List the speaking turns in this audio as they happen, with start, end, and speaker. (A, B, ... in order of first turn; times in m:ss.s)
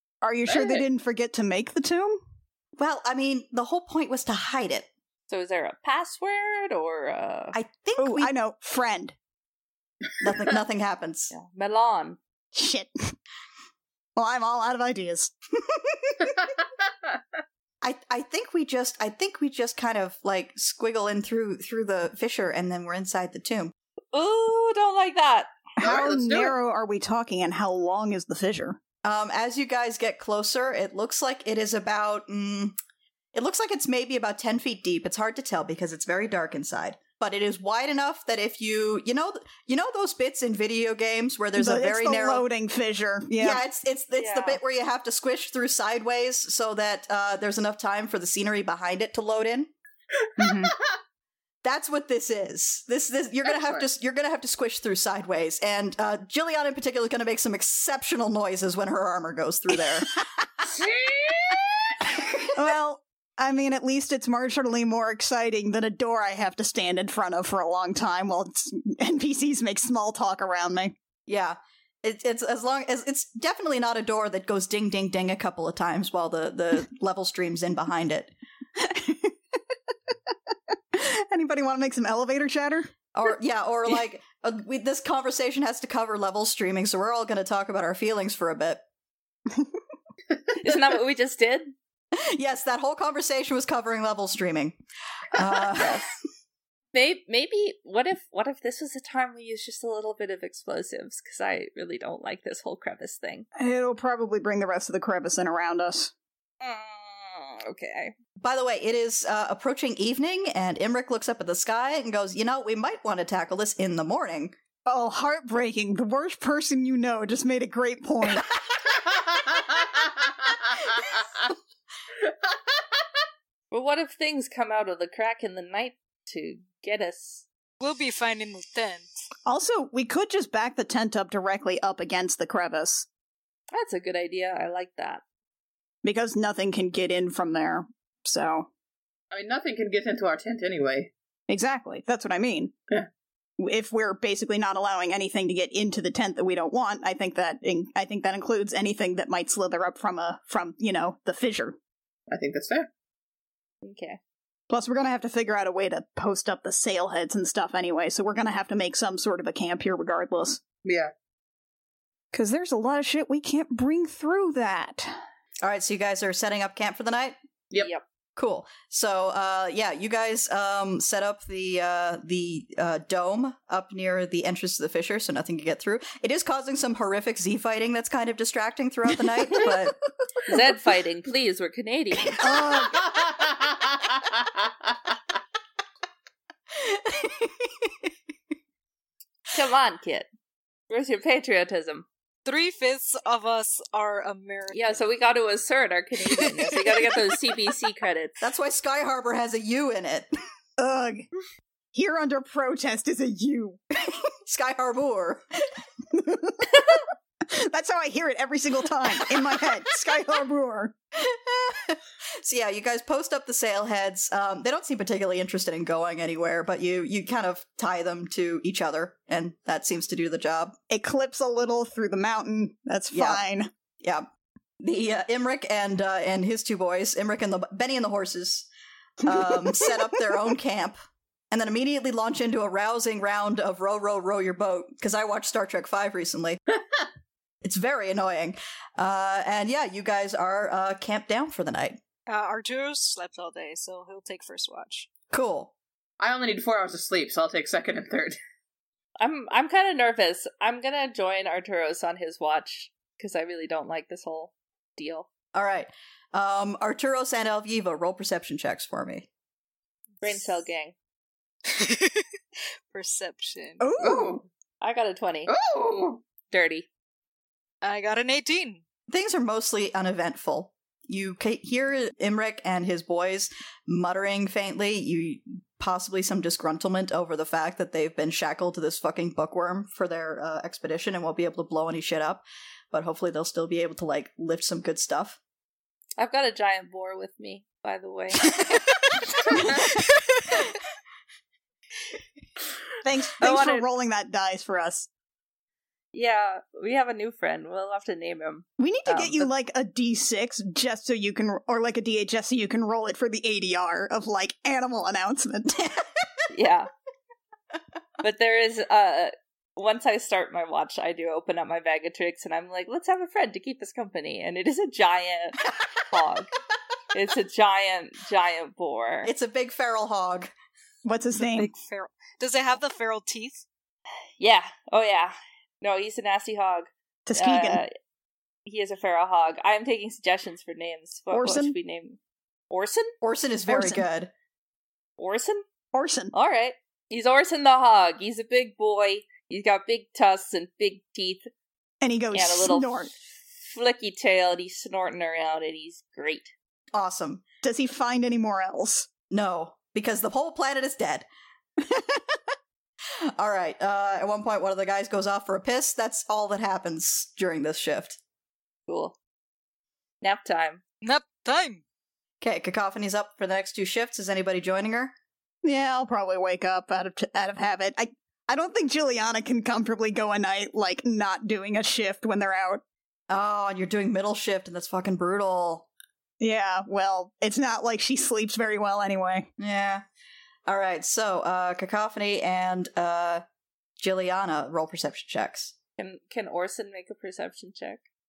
0:00.2-0:02.2 A
0:00.5-0:00.8 B
0:02.8-0:04.9 C
0:05.3-0:07.6 D
0:07.5-0:08.3 C
0:08.0-0:09.2 A
0:10.2-0:11.3 C
0:11.3-0:12.2 D
0:12.5-0:13.2 A
0:14.2-0:15.3 A
0:17.8-0:23.7 C
0:24.1-0:25.5 D
0:25.8-0:28.8 A
0:25.8-0:26.6 B
0:29.0-0:32.8 C
0:33.3-0:42.4 C
0:41.6-0:43.6 A
0:43.4-0:49.7 C
0:44.2-0:44.6 D
0:50.4-0:50.8 A
0:51.6-1:00.2 C
0:53.5-0:53.8 B
1:00.7-1:02.0 B
1:02.5-1:11.0 A
1:11.3-1:18.3 C
1:18.8-1:19.4 A
1:20.9-1:22.9 A
1:23.1-1:28.8 C
1:30.6-1:31.7 D
1:32.2-1:34.8 C
1:35.3-1:36.1 C
1:35.8-1:36.0 D
1:36.9-1:43.5 D
1:43.6-1:46.1 A
1:46.6-1:48.1 D
1:48.4-1:54.6 C
1:54.9-1:58.5 A
1:59.1-2:01.5 B
2:02.2-2:02.6 B
2:03.7-2:07.5 D
2:07.8-2:09.1 E
2:09.5-2:13.1 A
2:13.7-2:15.2 D
2:16.0-2:18.7 A
2:19.3-2:21.1 B
2:21.5-2:22.7 A
2:23.6-2:31.8 A
2:32.3-2:32.9 B
2:33.8-2:34.2 D
2:34.7-2:40.6 A
2:40.8-2:41.1 B
2:42.3-2:45.2 A
2:45.6-2:47.4 C
2:47.8-2:48.0 D
2:48.4-3:00.0 C
3:00.4-3:02.4 D
3:02.4-3:03.0 A
3:02.8-3:04.7 B
3:06.7-3:08.1 C
3:09.5-3:10.3 D
3:10.9-3:12.1 D
3:12.4-3:15.0 E
3:14.7-3:18.4 D
3:16.4-3:16.7 E
3:18.4-3:20.3 C
3:20.8-3:21.3 A
3:21.9-3:23.8 A
3:24.0-3:25.4 C
3:26.1-3:31.0 A
3:31.2-3:40.8 C
3:40.9-3:43.7 A
3:43.1-3:43.4 C
3:44.0-3:44.3 C
3:44.8-3:48.7 C
3:49.2-3:51.0 C
3:49.3-3:50.0 A
3:51.5-3:56.6 C
3:57.6-4:02.0 C
4:02.3-4:05.1 E
4:05.3-4:05.7 C
4:06.2-4:08.4 B
4:09.2-4:15.3 D
4:15.6-4:19.3 C
4:20.2-4:21.0 D
4:21.8-4:22.2 E
4:22.9-4:23.9 E
4:23.8-4:24.4 A
4:24.0-4:24.4 B
4:24.8-4:25.5 D
4:25.5-4:26.2 B
4:26.5-4:26.9 D
4:27.8-4:28.8 E
4:29.1-4:45.4 C
4:46.2-4:48.5 D
4:53.0-4:55.1 A
4:53.4-4:53.8 D
4:56.1-4:59.5 D
4:58.8-5:05.9 A
5:06.5-5:06.9 D
5:08.2-5:16.5 D
5:17.1-5:19.3 D
5:19.2-5:20.5 C
5:21.0-5:21.7 A
5:21.4-5:23.6 E
5:24.4-5:27.9 D
5:27.3-5:27.8 A
5:28.7-5:32.2 D
5:31.3-5:31.8 A
5:32.7-5:33.1 D
5:33.2-5:34.3 C
5:33.7-5:34.1 A
5:35.2-5:35.6 D
5:35.9-5:36.3 A
5:36.3-5:41.5 D
5:42.0-5:43.1 A
5:42.3-5:43.1 D
5:43.7-5:46.5 D
5:46.9-5:47.4 C
5:47.6-5:49.1 A
5:49.3-5:51.3 C
5:51.8-5:52.4 A
5:53.4-5:58.2 C
5:58.9-5:59.2 D
6:00.2-6:00.8 D
6:01.0-6:01.8 E
6:02.4-6:05.1 C
6:05.6-6:12.8 A
6:13.3-6:15.9 C
6:16.4-6:19.5 A
6:19.6-6:20.0 C
6:20.7-6:23.4 C
6:24.0-6:25.7 C
6:26.0-6:28.0 D